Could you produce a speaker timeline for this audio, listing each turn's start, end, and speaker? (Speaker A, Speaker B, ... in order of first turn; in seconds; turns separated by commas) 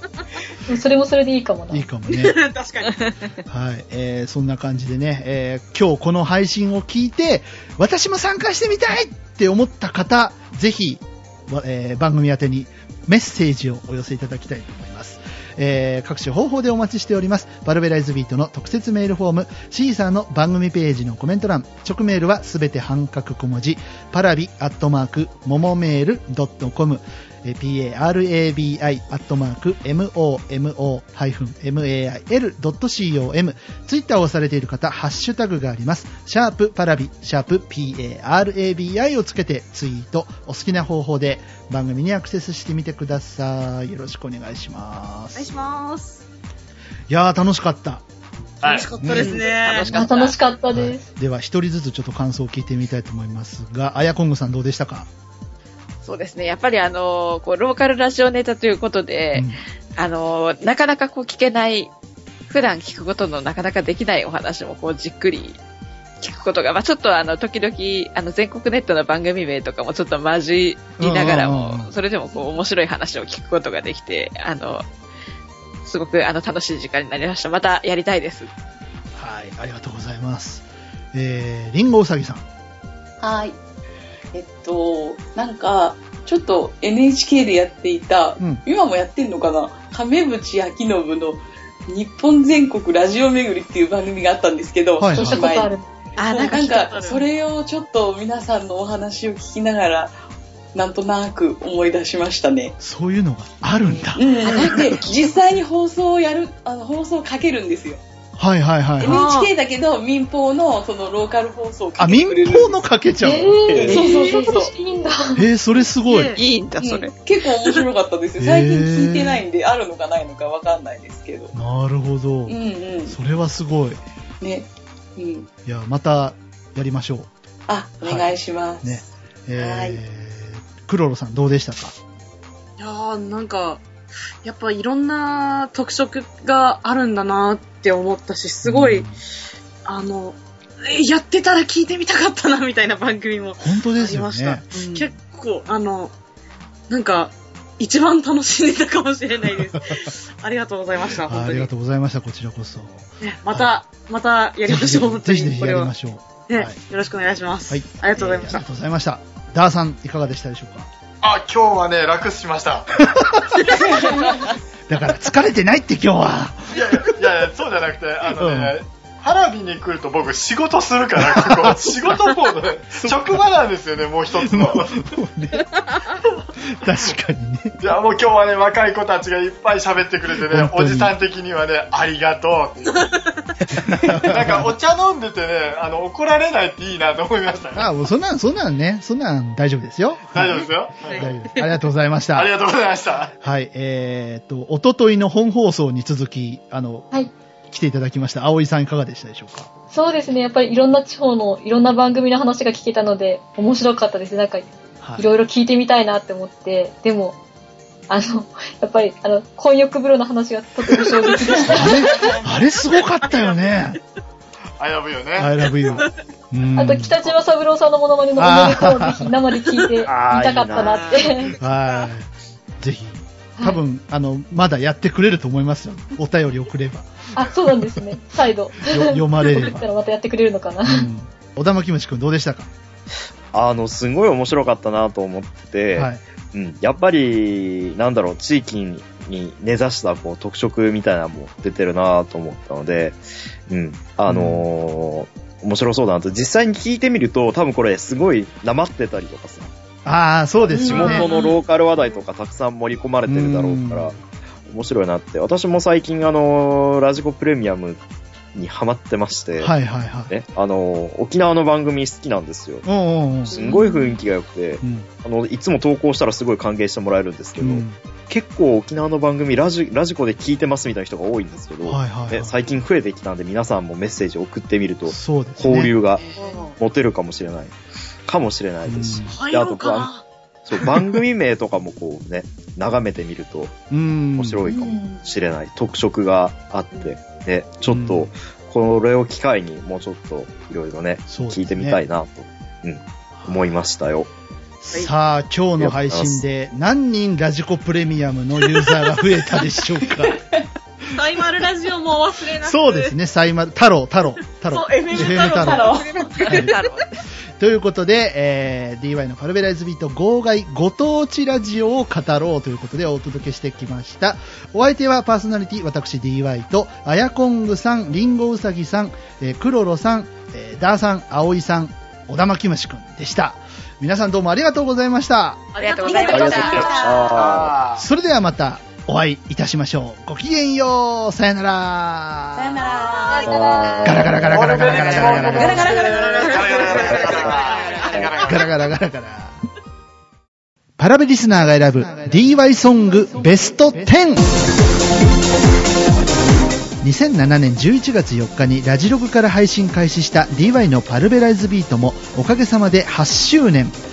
Speaker A: 0.7-1.9, Speaker B: 1.7-2.4, Speaker C: 2.1-3.4, Speaker B: 3.5-45.7, Speaker C: 45.4-46.2, Speaker B: 47.1-48.0, Speaker D: 48.6-49.0, Speaker C: 48.6-50.2, Speaker B: 49.0-49.4, Speaker E: 49.1-50.4, Speaker A: 49.8-51.0, Speaker B: 50.7-55.1, Speaker E: 56.0-61.9, Speaker B: 59.3-59.6, Speaker E: 62.5-65.6, Speaker E: 66.2-74.8, Speaker B: 71.0-71.9, Speaker E: 75.8-78.5, Speaker B: 79.1-82.4, Speaker F: 83.2-83.6, Speaker F: 84.3-95.7, Speaker B: 95.0-95.4, Speaker A: 95.1-95.8, Speaker E: 96.2-97.2, Speaker C: 96.2-97.2, Speaker F: 96.3-100.1, Speaker F: 100.7-102.7, Speaker B: 102.8-104.2, Speaker F: 104.2-108.0, Speaker E: 104.4-104.8, Speaker C: 104.5-104.7, Speaker B: 108.4-109.3, Speaker F: 109.0-112.8, Speaker C: 109.0-109.5, Speaker B: 112.0-113.9, Speaker A: 113.2-115.5, Speaker G: 113.7-114.0, Speaker F: 113.7-114.7, Speaker B: 115.3-116.4, Speaker C: 116.0-116.4, Speaker E: 116.3-117.1, Speaker F: 116.8-121.5, Speaker B: 118.4-119.4, Speaker B: 121.5-124.0, Speaker F: 122.5-123.2, Speaker F: 124.4-125.5, Speaker B: 125.7-127.3, Speaker F: 127.7-129.0, Speaker B: 128.0-131.9, Speaker F: 129.6-130.0, Speaker C: 132.8-133.8, Speaker C: 134.4-139.1, Speaker B: 138.6-139.2, Speaker C: 139.8-146.1, Speaker B: 143.6-144.7, Speaker C: 146.9-151.7, Speaker B: 149.7-150.0, Speaker B: 151.2-153.8, Speaker C: 153.2-155.9, Speaker B: 154.6-156.8, Speaker C: 156.5-158.6, Speaker B: 157.7-160.9, Speaker D: 161.2-162.9, Speaker B: 163.0-164.2, Speaker F: 163.8-164.3, Speaker B: 164.9-167.2, Speaker D: 166.7-175.0, Speaker B: 168.4-168.7, Speaker B: 171.2-173.4, Speaker B: 174.4-175.7, Speaker B: 176.7-177.8, Speaker D: 177.8-187.9, Speaker B: 180.4-181.1, Speaker C: 182.9-183.3, Speaker B: 183.8-184.7, Speaker B: 187.7-192.5, Speaker D: 190.3-191.3, Speaker C: 191.0-191.7, Speaker D: 192.3-193.3, Speaker B: 193.4-199.7, Speaker A: 199.9-207.4, Speaker B: 205.0-205.3, Speaker A: 208.1-212.4, Speaker B: 211.6-214.0, Speaker D: 214.8-215.7, Speaker B: 215.3-217.2, Speaker A: 216.7-221.6, Speaker B: 218.3-219.3, Speaker B: 220.0-220.9, Speaker G: 220.0-221.2, Speaker B: 221.4-228.0, Speaker A: 227.3-231.1, Speaker B: 228.9-229.9, Speaker B: 230.8-232.7, Speaker G: 233.5-249.7, Speaker B: 235.9-236.2, Speaker B: 244.3-244.7, Speaker B: 250.0-251.2, Speaker G: 250.6-254.1, Speaker F: 250.7-251.6, Speaker B: 253.3-254.2, Speaker G: 254.7-258.0, Speaker G: 258.5-259.7, Speaker B: 259.6-260.3, Speaker G: 260.3-262.8, Speaker B: 262.8-263.5, Speaker F: 263.5-264.2, Speaker G: 263.5-276.2, Speaker B: 264.8-265.1, Speaker B: 267.6-268.0, Speaker B: 271.8-272.6, Speaker B: 275.1-275.9, Speaker E: 276.2-276.7, Speaker C: 276.4-276.8, Speaker G: 276.8-277.7, Speaker G: 278.3-280.1, Speaker B: 278.9-279.4, Speaker C: 279.3-280.2, Speaker G: 280.6-283.7, Speaker B: 283.9-284.7, Speaker G: 284.4-294.3, Speaker F: 284.6-285.2, Speaker B: 287.9-288.3, Speaker B: 291.3-292.0, Speaker B: 293.4-293.8, Speaker B: 294.8-300.4, Speaker G: 295.8-296.4, Speaker F: 300.3-300.6, Speaker C: 301.1-303.1, Speaker B: 302.6-306.8, Speaker C: 304.7-306.6, Speaker F: 305.1-306.6, Speaker E: 305.9-307.2, Speaker B: 307.6-325.7, Speaker C: 325.7-327.2, Speaker E: 325.8-327.2, Speaker F: 326.1-327.1, Speaker G: 326.2-327.8, Speaker D: 326.3-328.0, Speaker B: 328.0-332.8, Speaker F: 332.5-337.4, Speaker A: 333.2-334.2, Speaker G: 333.4-334.6, Speaker B: 334.0-336.0, Speaker D: 334.5-338.8, Speaker E: 335.1-338.7, Speaker C: 335.8-338.1, Speaker B: 338.4-339.6, Speaker B: 341.0-344.5, Speaker B: 347.0-354.0